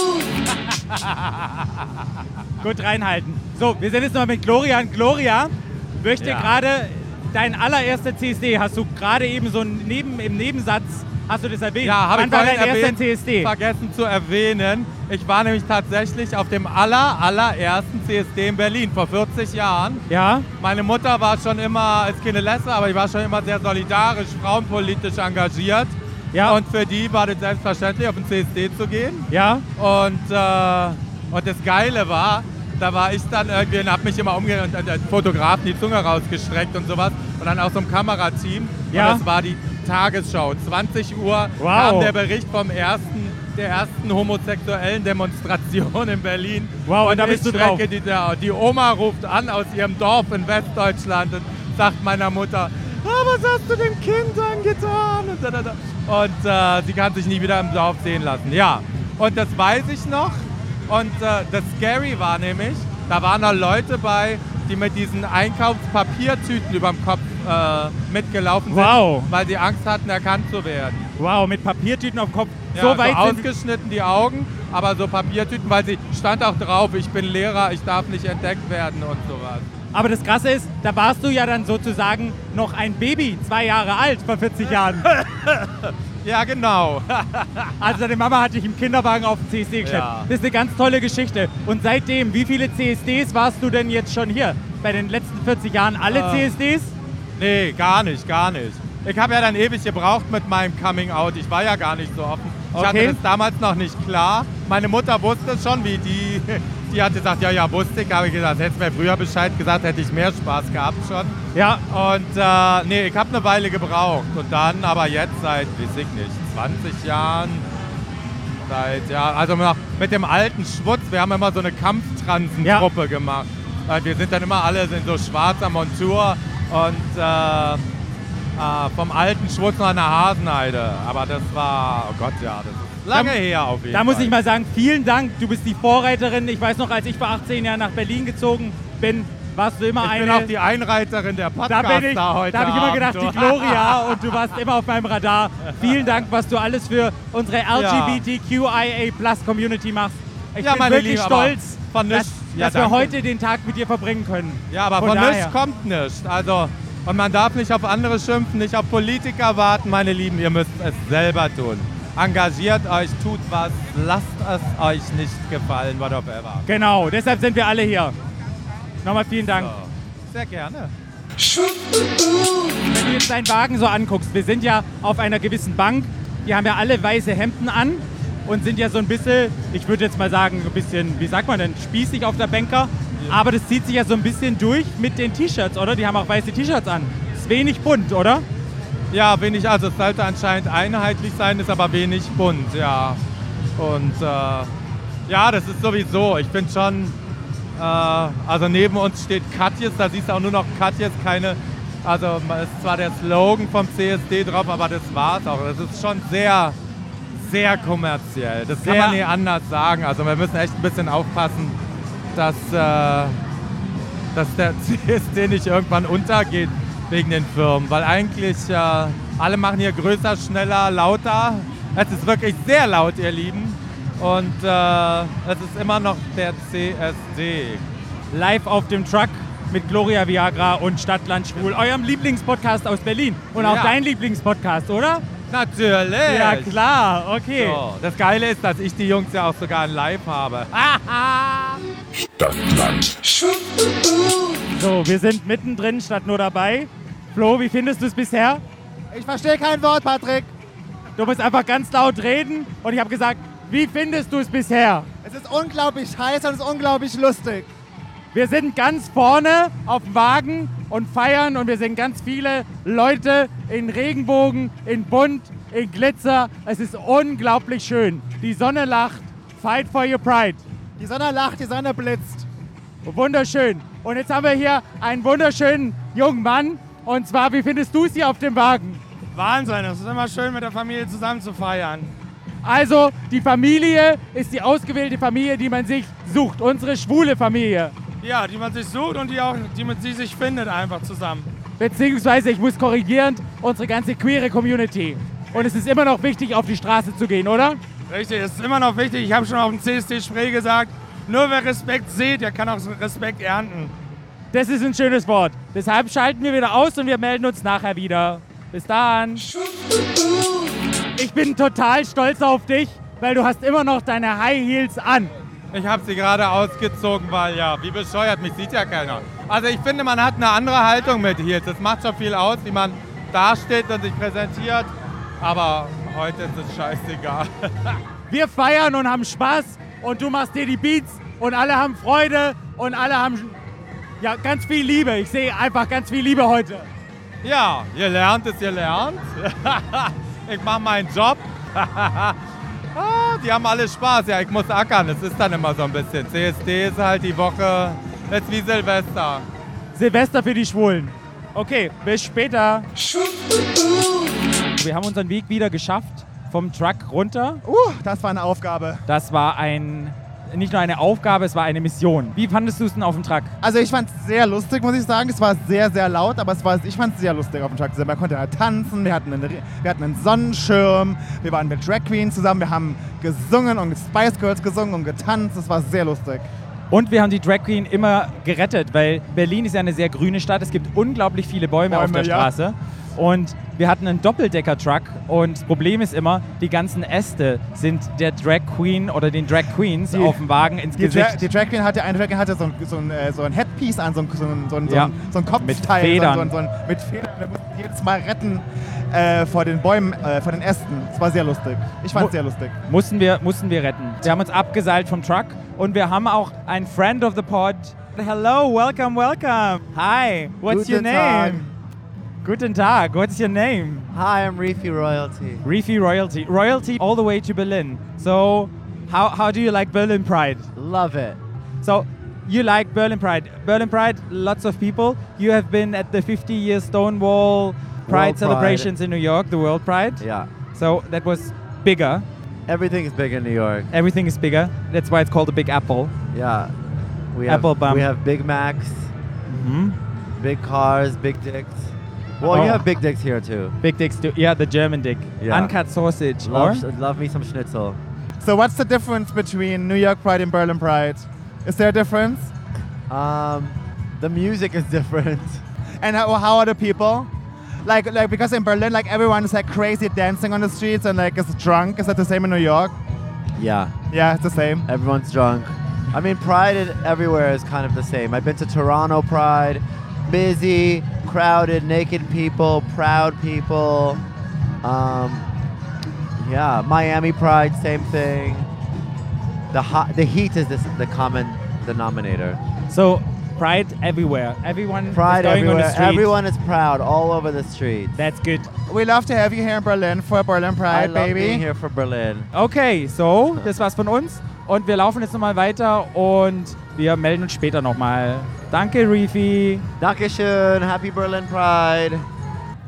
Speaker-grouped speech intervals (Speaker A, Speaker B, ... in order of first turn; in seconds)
Speaker A: 2.6-13.5, 20.1-20.4, 26.3-26.6, 29.3-29.6, 38.9-39.2, 41.6-42.1, 46.9-47.8, 68.7-69.3, 71.2-73.5, 79.9-85.1, 87.8-96.9, 102.7-103.2, 111.5-111.8, 122.6-122.9, 133.1-140.5, 141.7-155.5, 166.7-168.1, 169.0-169.7, 172.9-188.4, 208.8-209.2, 228.3-235.2, 236.2-237.8, 241.0-241.8, 244.7-248.6, 251.2-255.1, 258.3-270.6, 273.0-279.0, 282.6-287.9, 291.8-297.8, 304.5-309.4, 311.2-315.3, 328.3-333.6, 334.2-336.9, 349.9-352.9, 354.8-357.6, 359.1-363.5, 376.9-391.5, 394.9-396.5, 402.9-411.7, 412.4-414.1, 415.6-420.7, 421.8-432.2, 433.9-436.1, 437.5-438.1, 439.5-440.0, 442.4-442.8, 443.8-446.8, 482.9-486.3, 488.1-488.7, 492.5-499.8
Speaker B: 6.2-6.6, 11.8-20.0, 20.6-71.0, 72.7-79.7, 85.0-87.8, 89.8-90.3, 96.1-96.5, 97.4-111.4, 111.9-117.6, 118.6-127.8, 128.6-134.3, 140.0-144.4, 145.8-146.1, 147.7-148.2, 150.6-153.2, 154.7-166.6, 169.5-170.9, 189.1-193.2, 193.8-194.7, 195.3-197.2, 197.8-206.8, 207.3-211.8, 212.3-213.4, 214.3-227.8, 233.5-234.0, 235.5-236.8, 237.5-241.2, 315.7-328.0, 337.4-342.4, 342.9-349.4
Speaker C: 249.1-250.5, 255.2-257.7, 271.0-272.4, 357.6-359.0, 363.6-376.5, 381.9-382.5, 390.1-390.4, 390.9-402.8, 448.4-452.5, 456.0-457.3, 457.8-462.9, 464.1-464.9, 488.9-491.6
Speaker D: 279.3-282.1, 288.2-291.5, 298.1-303.9
Speaker E: 410.7-411.7, 414.1-415.6, 420.8-421.4, 428.1-428.9, 430.2-430.5, 432.7-433.9, 436.3-436.7, 437.3-439.1, 440.4-443.8, 445.4-445.7, 446.4-448.0, 453.1-455.6, 463.6-463.9, 464.9-474.2, 474.8-475.5, 476.4-478.7, 479.7-482.6, 485.1-488.2, 490.9-492.5, 500.0-502.3